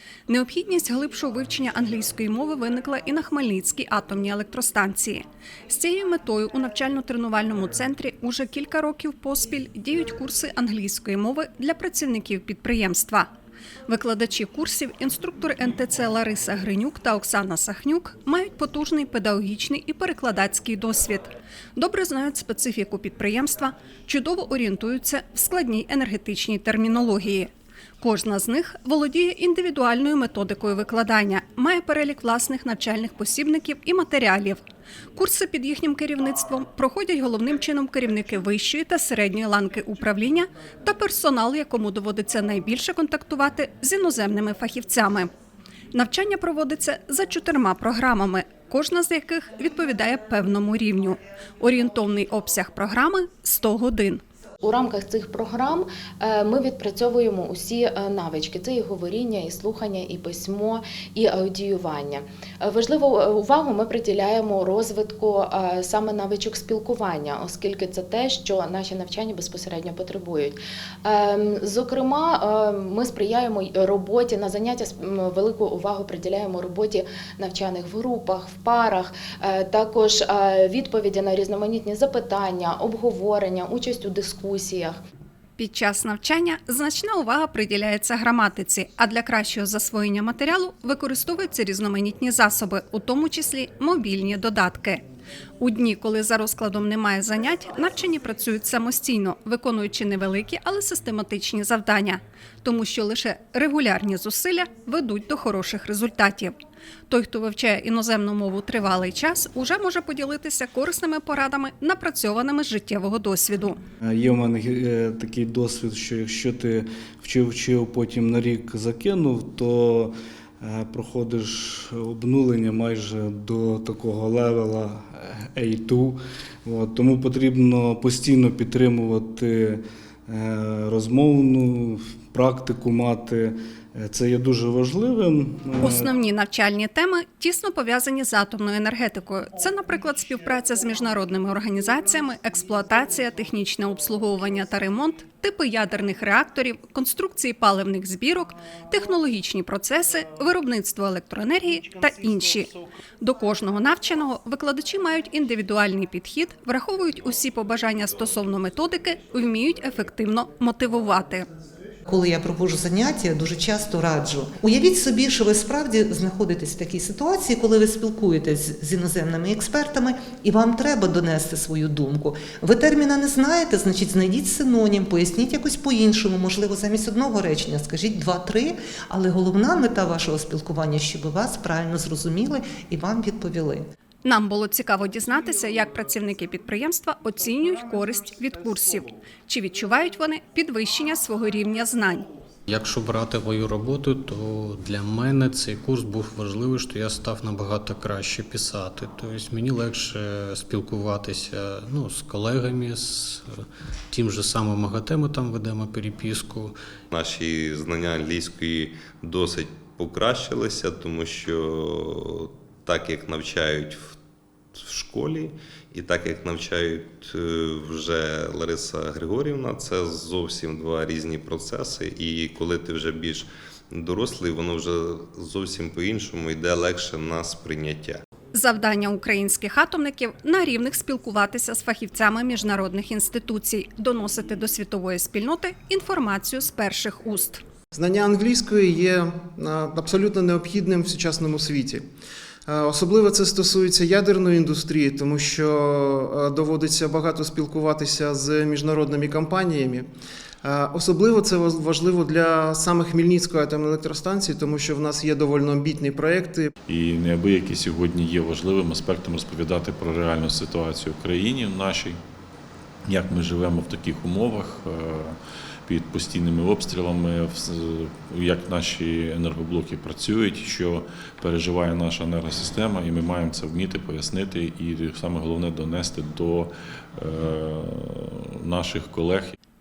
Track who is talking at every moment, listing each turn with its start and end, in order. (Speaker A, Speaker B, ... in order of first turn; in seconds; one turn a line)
Speaker A: 0.3-13.3
Speaker A: 13.9-27.5
Speaker A: 28.0-34.6
Speaker A: 35.1-45.3
Speaker A: 45.9-54.2
Speaker B: 54.6-85.0
Speaker A: 85.6-95.0
Speaker A: 95.6-106.5
Speaker A: 107.1-113.8
Speaker C: 114.0-136.1
Speaker A: 135.8-161.4
Speaker D: 162.1-183.8
Speaker A: 184.2-192.3
Speaker E: 192.7-206.8
Speaker F: 207.3-211.7
Speaker F: 212.9-214.0
Speaker F: 214.9-223.4
Speaker F: 224.0-228.1
Speaker A: 228.5-237.6
Speaker G: 237.9-242.1
Speaker G: 242.7-250.1
Speaker G: 250.6-256.7
Speaker H: 256.9-262.2
Speaker H: 263.0-279.6